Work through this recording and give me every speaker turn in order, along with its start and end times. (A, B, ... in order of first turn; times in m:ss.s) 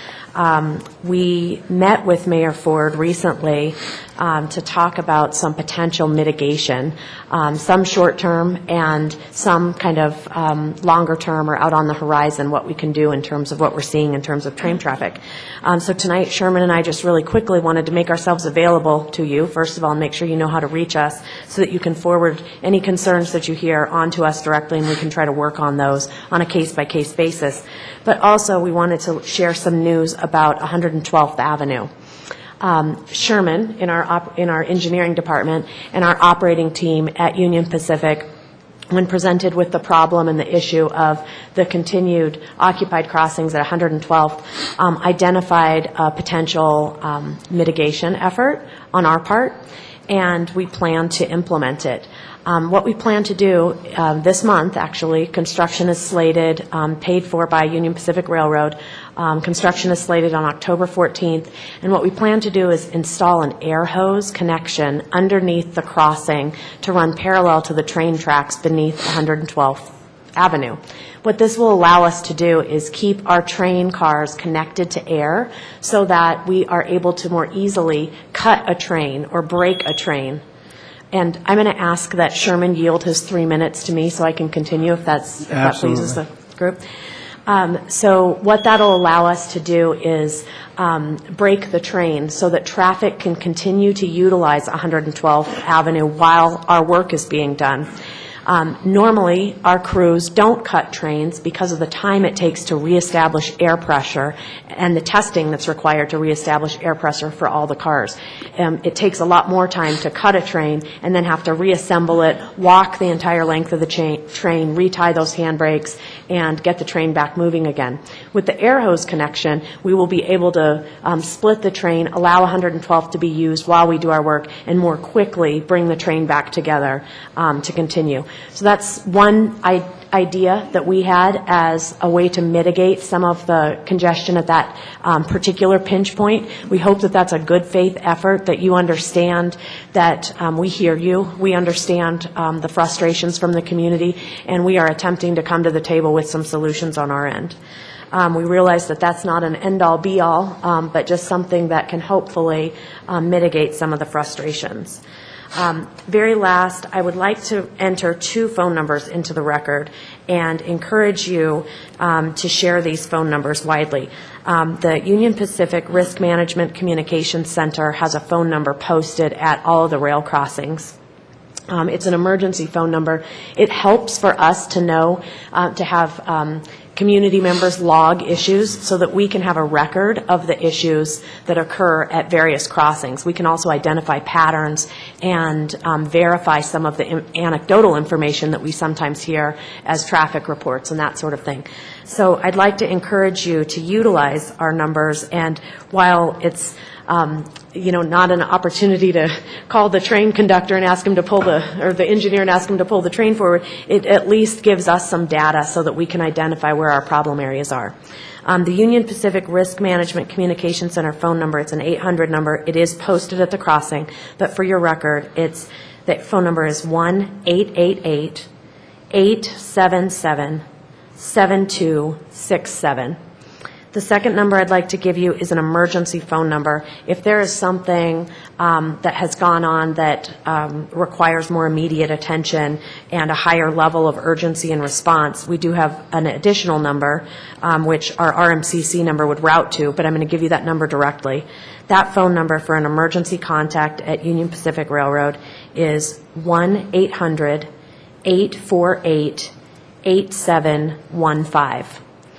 0:00.4-0:31.9 A
0:32.6-0:38.3 A
0:38.9-0:49.6 A
0:50.1-1:20.4 A
1:21.1-1:26.8 A
1:27.5-1:37.9 A
1:38.5-2:27.6 A
2:28.1-2:35.0 A
2:35.6-2:51.0 A
2:51.7-3:27.9 A
3:28.4-3:38.5 A
3:39.1-3:40.6 A
3:41.2-3:43.2 A
3:43.9-4:07.7 A
4:08.2-4:09.5 A
4:10.0-4:12.0 A